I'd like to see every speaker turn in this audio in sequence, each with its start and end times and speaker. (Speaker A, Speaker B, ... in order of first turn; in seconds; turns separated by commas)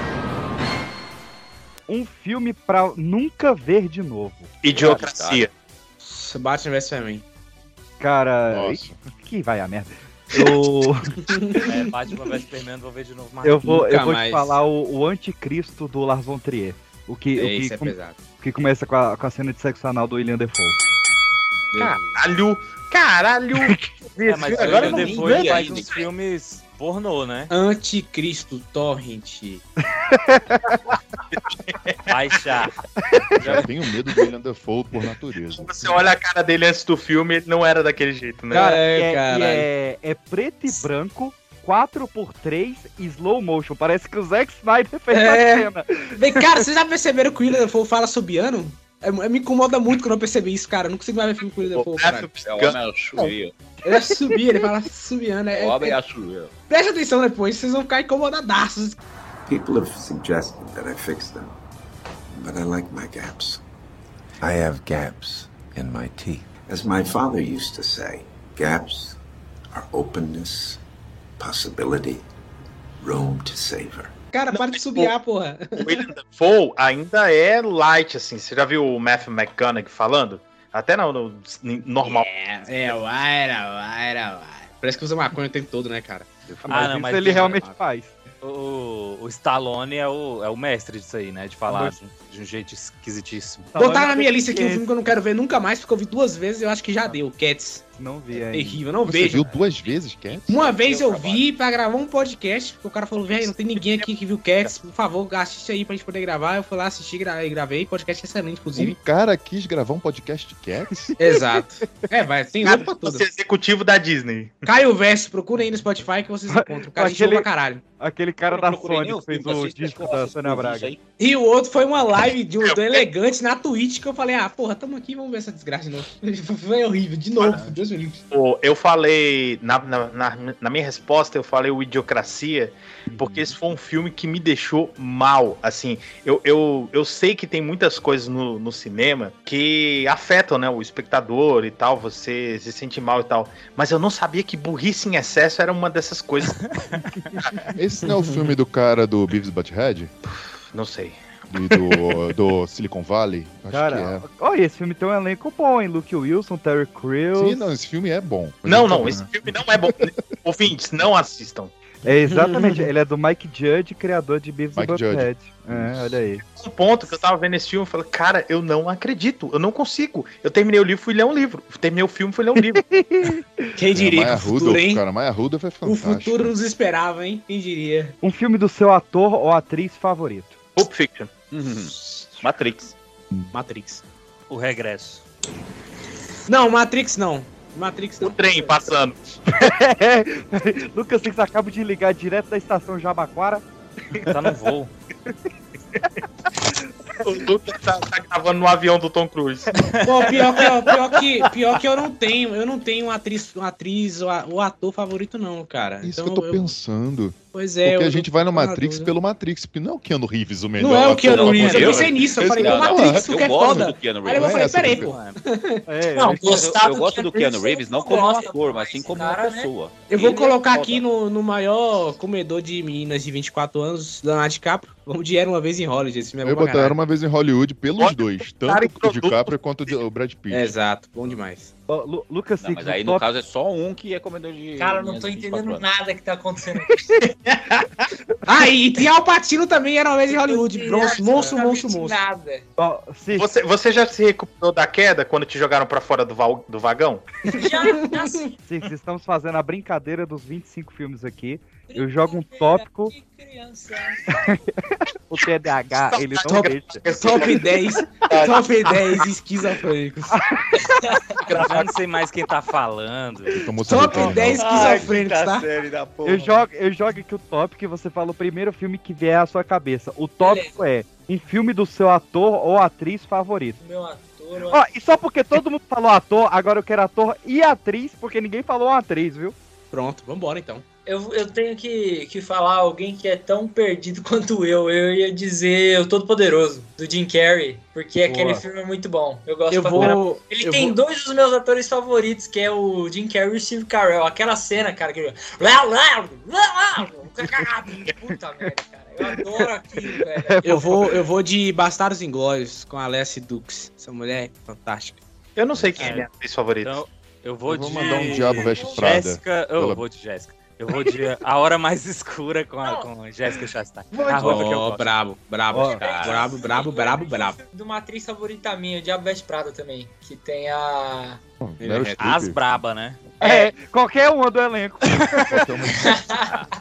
Speaker A: 1.9-4.5, Speaker B: 4.6-5.5, Speaker C: 4.7-5.5, Speaker D: 6.0-7.2, Speaker A: 8.0-11.6, Speaker E: 8.5-9.0, Speaker D: 11.3-11.7, Speaker F: 11.6-13.8, Speaker A: 13.4-20.8, Speaker D: 13.6-14.6, Speaker D: 17.4-18.2, Speaker D: 21.7-22.0, Speaker B: 21.8-25.9, Speaker F: 24.3-27.5, Speaker C: 24.5-26.0, Speaker D: 27.5-29.6, Speaker A: 30.0-30.8, Speaker B: 31.5-32.1, Speaker F: 32.1-32.8, Speaker E: 33.4-35.7, Speaker B: 35.5-38.8, Speaker D: 38.5-39.7, Speaker A: 38.5-46.6, Speaker D: 45.1-52.3, Speaker B: 51.6-53.3, Speaker C: 52.4-53.5, Speaker D: 53.8-56.0, Speaker A: 53.9-54.4, Speaker C: 55.5-56.5, Speaker D: 56.7-59.0, Speaker G: 59.5-61.5, Speaker G: 62.3-63.6, Speaker G: 64.4-69.2, Speaker G: 69.7-70.8, Speaker G: 71.4-72.2, Speaker G: 73.0-74.1, Speaker D: 74.3-76.0, Speaker B: 74.5-75.1, Speaker B: 75.8-82.3, Speaker D: 82.0-87.8, Speaker A: 86.6-88.1, Speaker F: 86.7-87.6, Speaker F: 88.4-93.7, Speaker A: 91.7-92.0, Speaker A: 93.7-94.9, Speaker D: 93.8-99.5, Speaker A: 98.0-98.8, Speaker E: 99.0-100.7, Speaker C: 99.3-100.0, Speaker D: 100.5-109.0, Speaker C: 100.5-101.4, Speaker B: 103.8-104.1, Speaker E: 108.8-111.2, Speaker D: 111.2-113.2, Speaker B: 112.6-114.6, Speaker D: 114.7-117.8, Speaker A: 116.5-117.5, Speaker A: 118.0-120.9, Speaker C: 118.5-121.0, Speaker D: 121.2-128.2, Speaker B: 122.6-123.0, Speaker B: 127.4-127.7, Speaker B: 128.3-146.7, Speaker A: 133.1-133.5, Speaker E: 147.7-150.1, Speaker B: 150.3-151.2, Speaker E: 151.5-154.2, Speaker B: 151.7-152.0, Speaker A: 153.7-157.7, Speaker E: 157.3-159.6, Speaker B: 158.6-161.7, Speaker A: 162.0-166.4, Speaker D: 162.2-162.9, Speaker E: 164.7-166.2, Speaker B: 166.4-172.8, Speaker A: 172.7-173.7, Speaker D: 173.8-175.0, Speaker E: 173.9-176.5, Speaker D: 175.8-178.1, Speaker A: 178.2-180.6, Speaker B: 180.8-181.3, Speaker C: 181.5-182.9, Speaker B: 182.0-182.4, Speaker D: 183.5-184.0, Speaker F: 184.5-185.2, Speaker D: 186.5-188.8, Speaker B: 188.2-189.2, Speaker A: 189.5-194.3, Speaker F: 194.2-194.9, Speaker B: 197.2-199.8, Speaker D: 200.0-206.7, Speaker E: 206.0-213.4, Speaker D: 207.5-209.1, Speaker D: 210.8-215.8, Speaker C: 211.2-214.9, Speaker E: 214.3-215.1, Speaker F: 214.8-215.4, Speaker A: 215.9-216.6, Speaker H: 216.1-219.7, Speaker C: 216.4-221.0, Speaker D: 220.1-227.0, Speaker E: 226.4-230.8, Speaker B: 228.0-229.6, Speaker D: 230.5-231.7, Speaker A: 231.9-233.2, Speaker C: 232.6-235.8, Speaker H: 234.8-237.1, Speaker B: 237.2-238.0, Speaker D: 238.4-242.2, Speaker H: 240.3-242.7, Speaker A: 242.8-243.4, Speaker B: 243.3-247.6, Speaker H: 247.5-248.6, Speaker D: 247.8-248.3, Speaker A: 248.6-253.1, Speaker H: 251.9-254.4, Speaker A: 254.3-257.0, Speaker B: 255.9-259.2, Speaker D: 256.4-260.4, Speaker A: 260.3-260.6, Speaker H: 260.8-261.5, Speaker B: 261.4-261.9, Speaker F: 261.6-263.6, Speaker E: 263.6-265.0, Speaker D: 263.8-265.7, Speaker C: 264.6-266.5, Speaker A: 266.2-273.8, Speaker H: 270.4-270.8, Speaker H: 273.8-274.8, Speaker A: 274.7-279.5, Speaker D: 279.9-280.8, Speaker H: 281.1-301.0, Speaker A: 288.2-288.6, Speaker D: 289.7-290.9, Speaker A: 298.3-298.7, Speaker A: 299.2-301.2, Speaker D: 300.6-305.2, Speaker B: 305.6-307.0, Speaker F: 306.0-306.3, Speaker F: 306.8-315.1, Speaker E: 307.7-310.0, Speaker H: 307.9-309.1, Speaker H: 312.8-313.1, Speaker D: 314.2-317.6, Speaker A: 315.7-316.0, Speaker C: 315.8-316.6, Speaker H: 315.9-321.4, Speaker E: 321.6-322.8, Speaker D: 321.8-322.3, Speaker F: 322.2-323.2, Speaker A: 323.4-325.5, Speaker E: 325.3-326.3, Speaker H: 325.9-326.6